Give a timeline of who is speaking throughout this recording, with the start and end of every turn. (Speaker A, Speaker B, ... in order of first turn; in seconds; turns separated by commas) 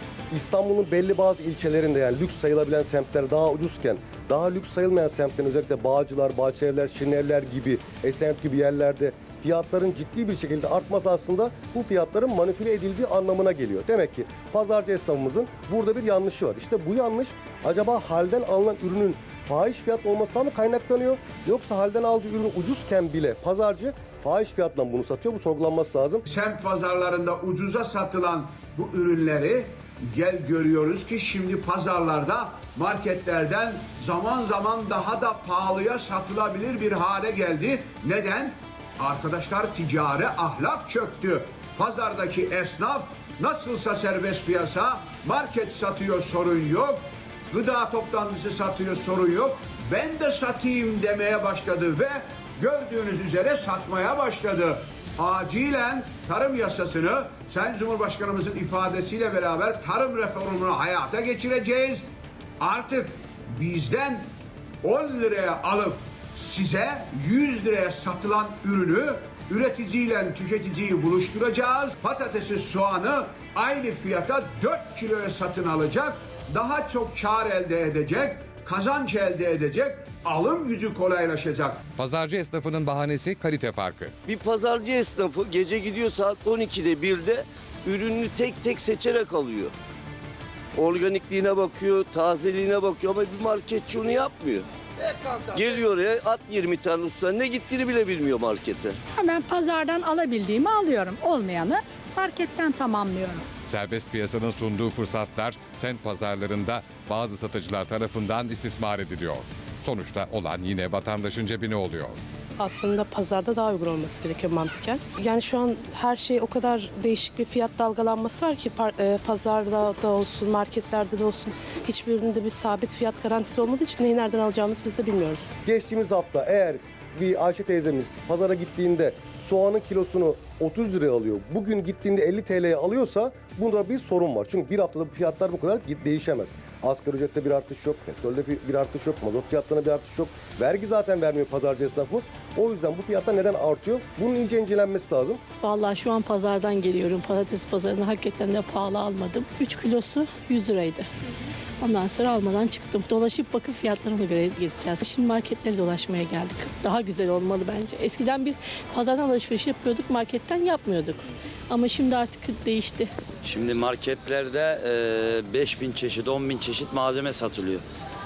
Speaker A: 0.3-26.2, Speaker B: 26.3-62.0, Speaker B: 62.6-64.3, Speaker B: 64.8-81.8, Speaker C: 82.0-84.2, Speaker D: 84.3-89.7, Speaker D: 90.8-94.7, Speaker D: 95.6-99.0, Speaker E: 99.2-103.4, Speaker C: 103.7-112.2, Speaker F: 112.6-125.5, Speaker A: 125.7-145.4, Speaker G: 145.6-151.1, Speaker G: 151.8-163.1, Speaker H: 163.4-167.8